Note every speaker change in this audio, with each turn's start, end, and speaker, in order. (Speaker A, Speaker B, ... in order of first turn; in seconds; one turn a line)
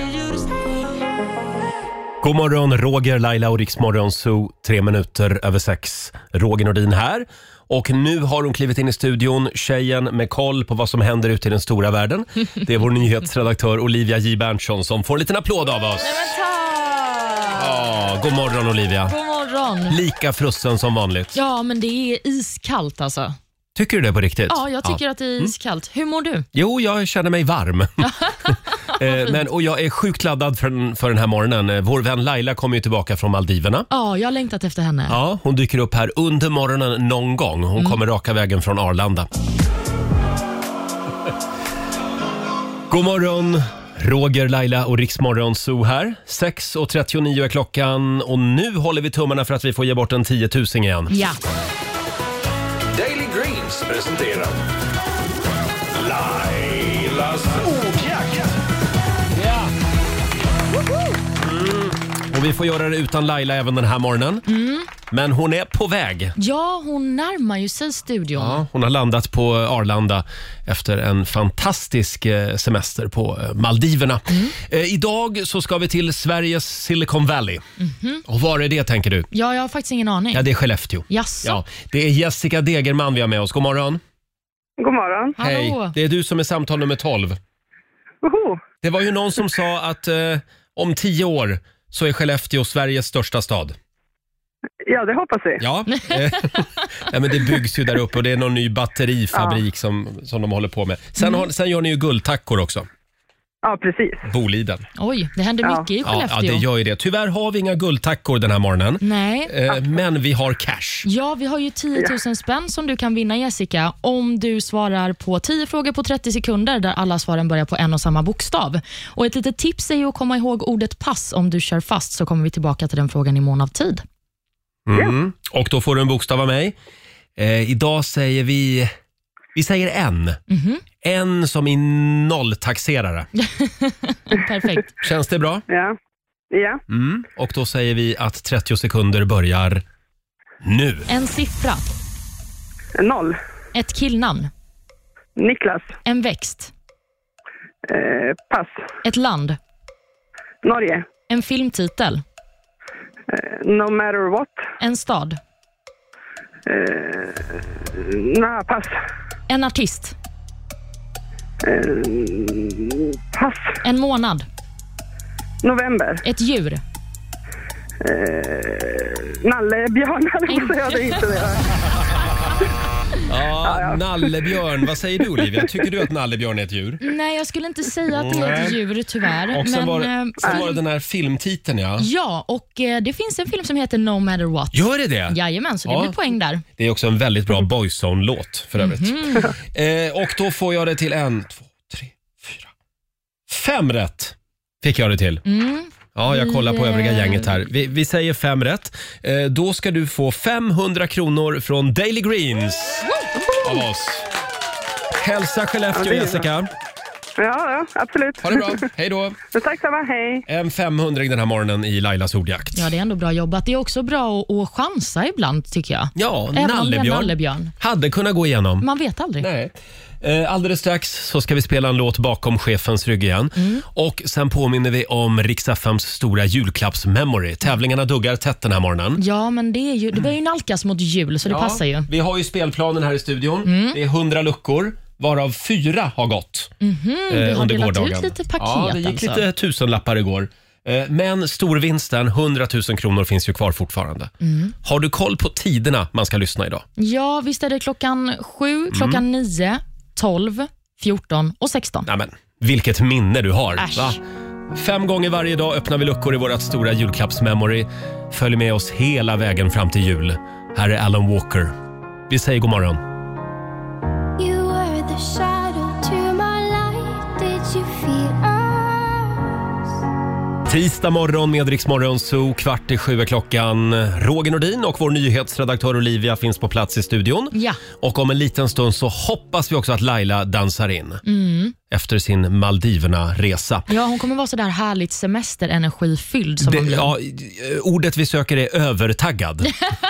Speaker A: 2.2-16.3
Speaker B: 16.0-17.7
Speaker A: 17.6-19.1
Speaker B: 19.1-20.0
Speaker A: 19.9-21.4
Speaker B: 21.3-23.4
Speaker A: 23.7-25.5
Speaker B: 24.5-26.5
Speaker A: 26.5-33.9
Speaker B: 28.0-29.4
Speaker B: 33.9-35.2
Speaker A: 35.1-39.3
Speaker A: 42.9-51.1
Speaker B: 51.1-51.4
Speaker C: 52.9-54.6
Speaker C: 55.9-58.6
Speaker A: 61.4-64.4
Speaker B: 64.5-64.9
Speaker A: 65.1-66.3
Speaker B: 66.4-68.6
Speaker A: 68.3-77.6
Speaker B: 74.3-74.5
Speaker B: 77.8-78.2
Speaker A: 78.3-79.3
Speaker B: 79.3-80.5
Speaker A: 80.3-84.0
Speaker B: 81.1-81.6
Speaker D: 84.8-85.3
Speaker B: 85.4-85.9
Speaker A: 85.4-87.4
Speaker D: 88.2-88.6
Speaker A: 88.8-93.8
Speaker D: 94.8-95.6
Speaker A: 95.6-102.9
Speaker B: 95.9-96.2
Speaker D: 99.3-99.6
Speaker B: 101.2-101.5
Speaker D: 103.6-104.3
Speaker A: 104.3-104.8
Speaker B: 105.0-106.6
Speaker A: 106.0-111.1
Speaker B: 109.0-109.5
Speaker B: 111.0-124.0
Speaker A: 124.9-126.8
Speaker A: 127.4-128.9
Speaker A: 129.5-130.4
Speaker B: 130.5-130.8
Speaker A: 131.0-133.3
Speaker B: 133.4-134.9
Speaker A: 135.0-135.6
Speaker D: 135.7-135.9
Speaker D: 136.5-136.8
Speaker A: 136.9-139.8
Speaker A: 140.6-141.1
Speaker B: 141.1-141.9
Speaker D: 142.9-143.4
Speaker B: 143.7-144.5
Speaker D: 145.3-145.9
Speaker B: 146.0-146.7
Speaker D: 147.9-148.8
Speaker B: 149.0-149.6
Speaker D: 150.6-151.1
Speaker B: 151.3-152.2
Speaker D: 153.3-154.6
Speaker B: 154.8-155.4
Speaker D: 156.7-158.9
Speaker B: 159.5-160.1
Speaker D: 161.6-163.8
Speaker B: 163.8-164.5
Speaker D: 165.6-166.2
Speaker B: 166.2-166.8
Speaker D: 168.0-171.6
Speaker B: 170.5-171.0
Speaker A: 173.3-177.1
Speaker D: 173.6-174.5
Speaker D: 175.4-175.9
Speaker B: 177.0-180.8
Speaker A: 178.1-178.8
Speaker A: 179.5-182.1
Speaker B: 182.0-186.6
Speaker A: 184.7-186.1
Speaker A: 186.8-192.7
Speaker B: 188.8-189.5
Speaker A: 193.5-195.4
Speaker B: 195.4-197.6
Speaker A: 196.1-203.1
Speaker A: 203.6-204.3
Speaker A: 205.2-206.7
Speaker D: 205.9-206.4
Speaker D: 207.4-208.9
Speaker A: 208.4-209.4
Speaker D: 209.5-210.4
Speaker A: 210.4-212.9
Speaker B: 212.7-217.7
Speaker A: 216.2-218.9
Speaker B: 218.8-219.5
Speaker A: 219.4-229.2
Speaker B: 223.6-223.8
Speaker B: 229.2-232.1
Speaker A: 231.5-236.7
Speaker B: 233.7-234.0
Speaker B: 236.8-239.4
Speaker A: 237.3-244.3
Speaker B: 244.4-244.7
Speaker A: 244.8-246.8
Speaker B: 247.0-252.1
Speaker A: 248.9-249.2
Speaker A: 252.1-254.2
Speaker B: 253.8-254.2
Speaker A: 254.7-261.7
Speaker A: 262.3-263.0
Speaker E: 264.4-269.6
Speaker A: 270.7-281.2
Speaker B: 277.5-277.8
Speaker B: 281.2-281.7
Speaker A: 281.9-283.9
Speaker B: 283.9-287.1
Speaker A: 286.6-289.7